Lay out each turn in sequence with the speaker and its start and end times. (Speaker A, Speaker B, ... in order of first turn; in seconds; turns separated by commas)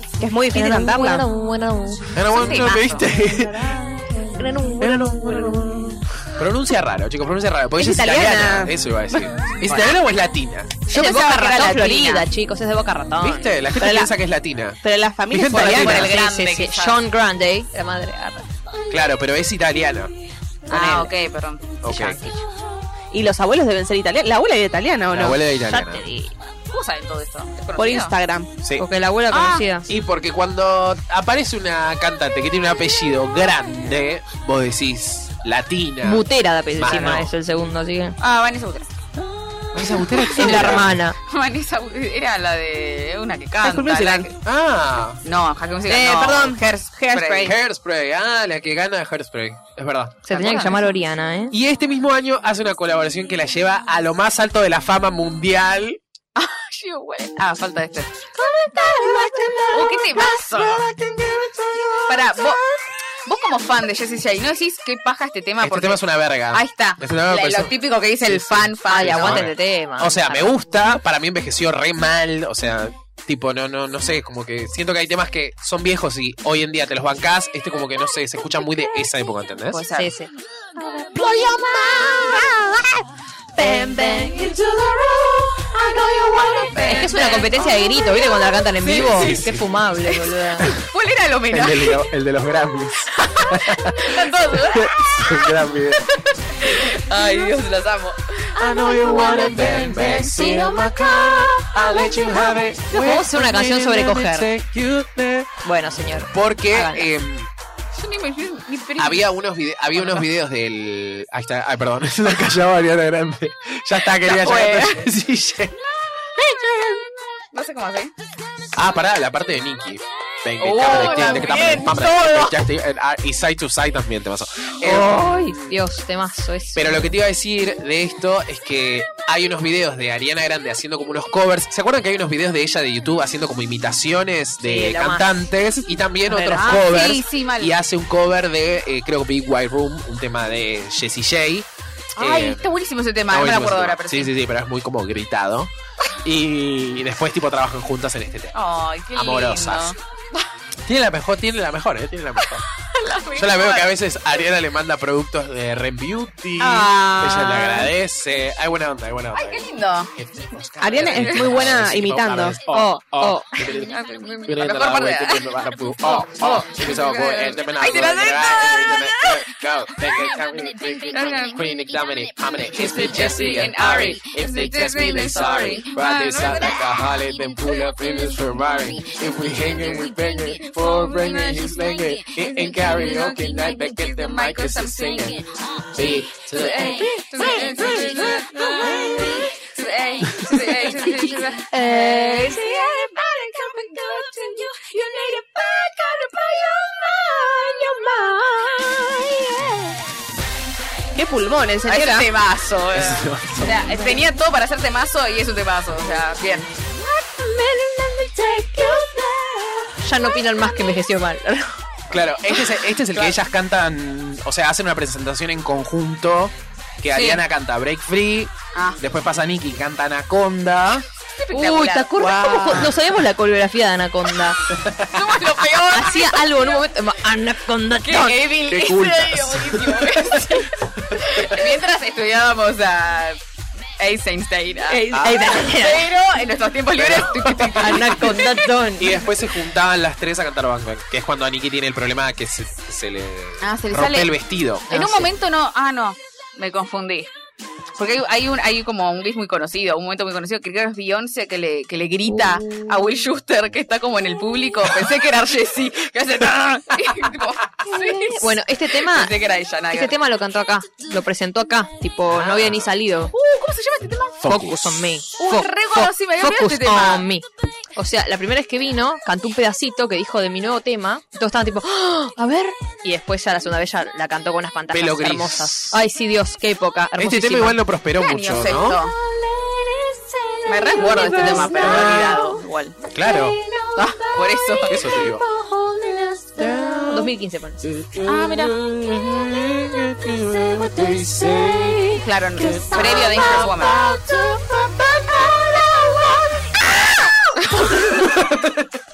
Speaker A: 0.2-1.3, Speaker B: 0.5-2.1, Speaker C: 2.1-3.8, Speaker D: 2.3-3.2, Speaker E: 3.0-5.7, Speaker C: 4.8-10.8, Speaker A: 7.8-8.8, Speaker D: 10.9-12.3, Speaker B: 10.9-13.6, Speaker C: 13.2-16.2, Speaker A: 13.8-14.1, Speaker A: 14.8-16.1, Speaker D: 15.6-17.0, Speaker B: 15.8-18.5, Speaker C: 18.9-20.1, Speaker D: 20.7-22.4, Speaker B: 20.7-21.0, Speaker C: 21.8-22.2, Speaker A: 23.1-25.4, Speaker C: 25.1-26.1, Speaker B: 25.6-26.4, Speaker D: 26.7-28.2, Speaker A: 27.8-28.5, Speaker C: 28.6-28.9, Speaker B: 28.8-29.9, Speaker D: 29.3-29.7, Speaker C: 29.9-36.2, Speaker B: 36.0-38.2, Speaker C: 36.8-37.3, Speaker D: 38.2-38.9, Speaker C: 39.7-41.0, Speaker B: 40.3-41.2, Speaker D: 40.5-44.3, Speaker A: 43.6-44.3, Speaker C: 44.4-45.2, Speaker D: 45.2-47.6, Speaker A: 45.9-47.5, Speaker C: 47.4-50.2, Speaker B: 50.3-51.5, Speaker D: 50.3-50.9, Speaker C: 51.5-56.0, Speaker D: 56.4-58.2, Speaker E: 58.3-62.6, Speaker D: 59.7-60.9, Speaker D: 62.1-62.6, Speaker D: 63.2-69.5, Speaker C: 65.6-79.8, Speaker B: 68.9-70.6, Speaker D: 79.7-80.2, Speaker B: 79.8-80.3, Speaker E: 80.8-82.7, Speaker E: 83.6-87.3, Speaker D: 86.7-88.2, Speaker B: 86.8-90.7, Speaker D: 88.8-89.5, Speaker C: 88.9-89.7, Speaker D: 90.1-92.0, Speaker C: 91.5-96.1, Speaker D: 93.2-95.5, Speaker D: 96.6-98.5, Speaker C: 98.6-105.5, Speaker E: 98.6-102.9, Speaker B: 102.9-104.5, Speaker B: 105.6-107.1, Speaker C: 106.2-107.5, Speaker D: 107.9-109.3, Speaker C: 109.0-115.8, Speaker D: 109.9-110.3, Speaker D: 114.0-115.1, Speaker D: 117.5-118.1, Speaker C: 118.7-125.7, Speaker D: 120.6-122.2, Speaker B: 124.8-127.1, Speaker C: 126.8-142.7, Speaker B: 134.6-135.3, Speaker B: 136.3-136.9, Speaker D: 136.5-137.8, Speaker D: 142.2-144.3, Speaker C: 143.3-145.7, Speaker C: 146.2-148.6, Speaker D: 148.5-150.5, Speaker C: 149.1-150.0, Speaker C: 150.9-152.6, Speaker D: 152.8-153.9, Speaker C: 153.4-187.1, Speaker D: 159.3-160.1, Speaker A: 160.8-162.6, Speaker D: 161.1-161.6, Speaker B: 162.7-163.6, Speaker D: 163.7-169.3, Speaker D: 171.1-171.7, Speaker D: 172.7-176.9, Speaker D: 183.4-185.4, Speaker D: 186.5-192.8, Speaker E: 186.6-189.7, Speaker E: 190.3-200.0, Speaker A: 201.2-202.3, Speaker D: 201.8-206.7, Speaker C: 202.9-204.0, Speaker E: 207.0-210.0, Speaker B: 210.0-211.8, Speaker C: 212.1-221.1, Speaker D: 213.0-213.4, Speaker D: 217.1-217.4, Speaker D: 218.7-219.0, Speaker D: 221.4-222.1, Speaker B: 221.5-224.6, Speaker A: 222.2-222.9, Speaker C: 224.7-225.5, Speaker D: 225.1-226.8, Speaker B: 225.9-228.5, Speaker D: 228.0-233.4, Speaker C: 228.7-231.7, Speaker D: 234.0-238.8, Speaker B: 234.9-236.1, Speaker C: 235.1-235.5, Speaker C: 236.9-238.4, Speaker B: 237.8-239.2, Speaker C: 239.0-245.2, Speaker D: 243.6-244.3, Speaker D: 244.9-247.3, Speaker B: 244.9-245.3, Speaker D: 248.0-260.2, Speaker B: 258.2-259.3, Speaker B: 259.9-263.3, Speaker C: 262.3-262.9, Speaker D: 263.3-264.5, Speaker C: 264.4-265.2, Speaker B: 264.5-277.8, Speaker D: 265.4-267.3, Speaker C: 274.9-276.0, Speaker C: 277.2-279.0, Speaker D: 278.1-279.1, Speaker E: 279.0-282.6, Speaker D: 280.7-283.0, Speaker B: 281.2-281.7, Speaker C: 281.7-282.4, Speaker C: 283.1-283.6, Speaker E: 283.1-287.2, Speaker D: 283.9-285.1, Speaker C: 284.9-285.4, Speaker C: 286.6-287.3, Speaker B: 287.1-287.8, Speaker C: 287.8-292.1, Speaker D: 288.2-288.7, Speaker E: 290.7-294.1, Speaker D: 292.1-294.1, Speaker C: 292.7-296.4, Speaker C: 297.9-298.9